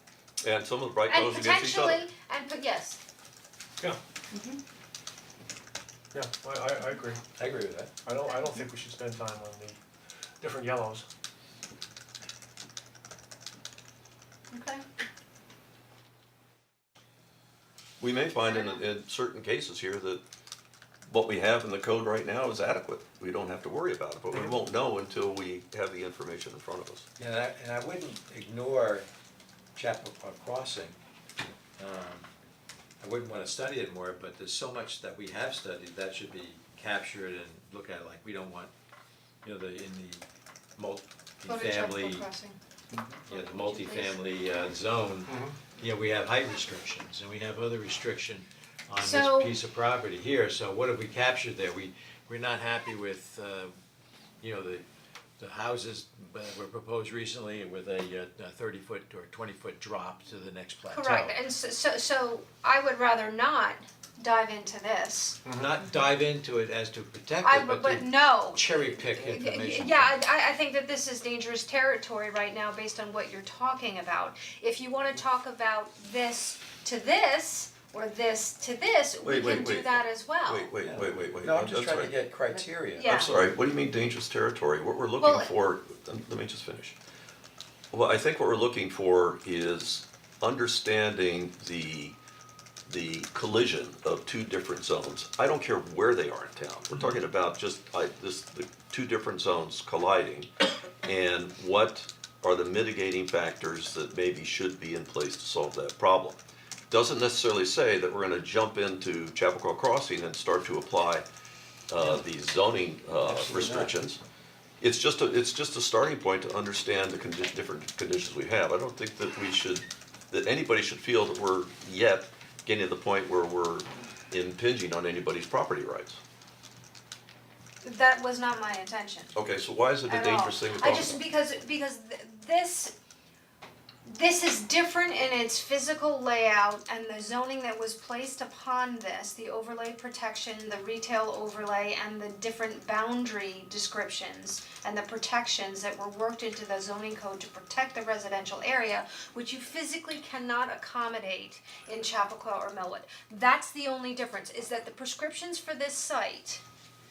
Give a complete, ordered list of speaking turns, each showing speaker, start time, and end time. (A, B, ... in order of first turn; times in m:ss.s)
0:00.4-0:02.0 A
0:01.1-0:03.0 B
0:06.1-0:07.2 C
0:07.4-0:07.9 D
0:08.0-0:09.8 C
0:10.4-0:11.0 C
0:14.5-0:14.8 B
0:18.0-0:20.2 A
0:18.5-0:18.8 B
0:21.1-0:27.1 A
0:27.2-0:29.1 D
0:29.8-0:31.0 D
0:31.8-0:32.3 D
0:33.0-0:38.7 D
0:39.4-0:40.2 D
0:40.8-0:42.3 D
0:41.4-0:42.6 B
0:42.9-0:43.2 C
0:43.3-0:53.7 D
0:43.3-0:44.2 B
0:45.3-0:45.6 C
0:49.0-0:49.6 B
0:54.4-0:54.8 D
0:55.4-1:01.4 D
1:00.9-1:05.4 B
1:05.4-1:05.7 C
1:05.5-1:10.2 D
1:07.4-1:20.7 B
1:19.2-1:22.2 A
1:20.8-1:23.3 D
1:23.0-1:23.4 B
1:23.0-1:27.0 A
1:25.2-1:25.5 B
1:27.9-1:32.2 A
1:32.9-1:40.5 A
1:41.0-1:51.3 A
1:51.9-1:54.2 A
1:53.3-1:53.9 D
1:54.8-2:06.2 A
2:07.8-2:09.3 B
2:09.4-2:11.2 A
2:10.1-2:12.9 B
2:14.0-2:36.6 B